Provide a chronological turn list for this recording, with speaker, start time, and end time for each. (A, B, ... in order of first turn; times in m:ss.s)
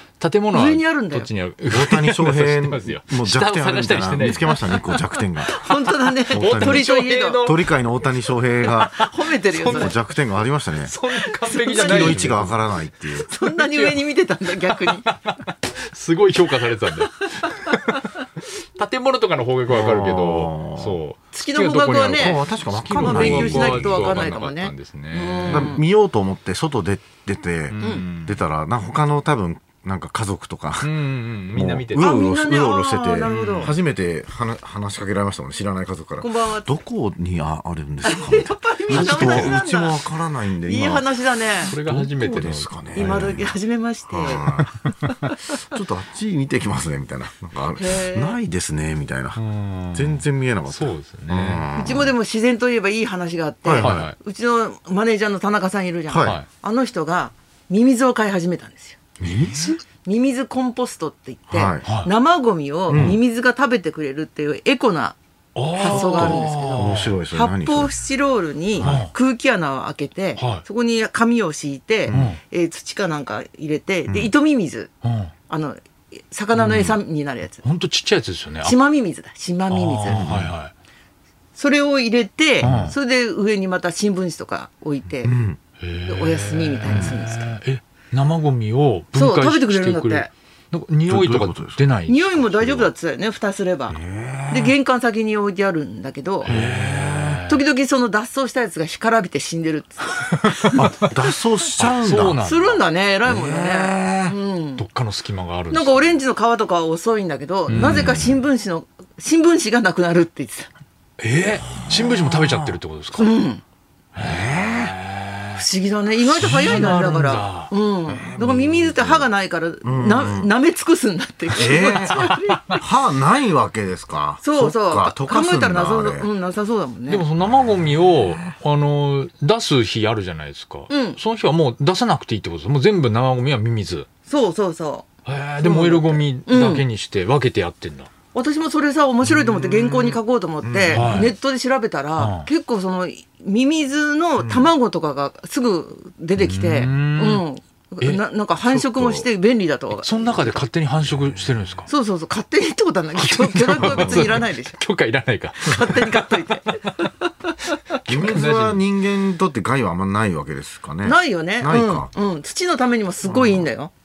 0:00.2-0:04.9 A
0:00.5-0:01.3 B
0:01.7-0:05.6 C
0:05.4-0:07.5 B
0:05.5-0:07.7 A
0:06.3-0:06.9 C
0:07.4-0:11.0 C
0:08.7-0:10.0 A
0:08.9-0:09.9 B
0:10.8-0:12.6 A
0:11.4-0:12.3 B
0:11.7-0:13.3 C
0:13.2-0:15.0 B
0:13.3-0:14.0 A
0:14.6-0:18.2 A
0:18.8-0:25.8 A
0:19.7-0:21.0 C
0:21.3-0:22.4 B
0:22.1-0:24.3 C
0:23.0-0:25.8 B
0:25.5-0:31.0 C
0:27.7-0:28.4 A
0:27.8-0:28.0 B
0:30.8-0:32.1 A
0:31.5-0:41.1 C
0:32.0-0:33.8 B
0:33.3-0:33.8 A
0:36.2-0:36.8 B
0:38.0-0:40.0 B
0:38.9-0:39.6 A
0:40.6-0:41.7 B
0:41.6-0:43.6 C
0:41.6-0:43.2 A
0:42.9-0:44.5 B
0:44.1-0:44.9 C
0:44.8-0:45.3 A
0:45.5-0:49.4 C
0:47.8-0:48.4 B
0:49.4-0:51.6 A
0:49.9-0:52.1 C
0:51.8-1:05.2 B
0:53.6-0:54.1 C
0:53.8-0:54.2 A
0:56.1-0:56.4 C
0:59.2-0:59.8 A
0:59.2-0:59.5 C
1:01.5-1:01.9 C
1:01.8-1:02.1 A
1:02.9-1:03.2 C
1:02.9-1:03.2 A
1:05.6-1:07.2 A
1:05.7-1:14.9 B
1:05.8-1:07.9 C
1:08.8-1:09.1 C
1:08.8-1:09.1 A
1:10.4-1:10.6 A
1:12.1-1:12.4 C
1:12.1-1:12.4 A
1:15.0-1:15.3 A
1:15.5-1:17.6 B
1:16.6-1:17.0 A
1:17.6-1:18.8 A
1:18.6-1:20.2 B
1:19.7-1:20.7 A
1:20.1-1:20.5 C
1:21.6-1:25.4 B
1:22.6-1:23.0 C
1:22.6-1:23.0 A
1:25.2-1:25.6 C
1:25.8-1:32.8 A
1:26.1-1:27.5 B
1:26.9-1:27.1 C
1:29.2-1:30.3 B
1:31.1-1:31.8 C
1:32.1-1:34.0 B
1:33.9-1:34.8 C
1:34.5-1:36.5 B
1:36.4-1:37.6 A
1:36.4-1:37.4 C
1:37.4-1:41.0 B
1:40.4-1:40.8 A
1:40.7-1:42.4 C
1:41.8-1:42.8 A
1:42.4-1:44.8 B
1:43.3-1:44.4 C
1:44.8-1:46.2 A
1:45.7-1:50.7 B
1:47.7-1:48.3 A
1:47.8-1:48.2 C
1:51.2-1:53.4 A
1:51.8-1:52.7 C
1:53.2-1:53.6 B
1:54.2-1:55.6 A
1:54.2-1:54.9 C
1:55.6-2:02.8 B
1:56.2-1:57.7 A
1:58.1-1:59.3 C
1:59.8-2:00.5 C
2:01.5-2:06.3 C
2:02.1-2:02.8 A
2:04.4-2:07.2 B
2:07.1-2:14.1 A
2:07.4-2:08.4 C
2:10.9-2:11.2 B
2:14.3-2:15.1 B
2:15.2-2:18.1 A
2:15.6-2:16.8 B
2:18.3-2:30.6 B
2:19.6-2:21.3 C
2:20.9-2:21.3 A
2:22.2-2:22.5 A
2:24.4-2:24.7 C
2:26.4-2:27.4 A
2:28.6-2:29.3 C
2:30.0-2:31.9 A
2:31.9-2:34.8 B
2:33.2-2:37.1 A
2:33.8-2:34.5 C
2:35.6-2:37.1 B
2:37.9-2:38.8 A
2:38.1-2:42.1 C
2:41.0-2:43.9 B
2:43.3-2:43.7 C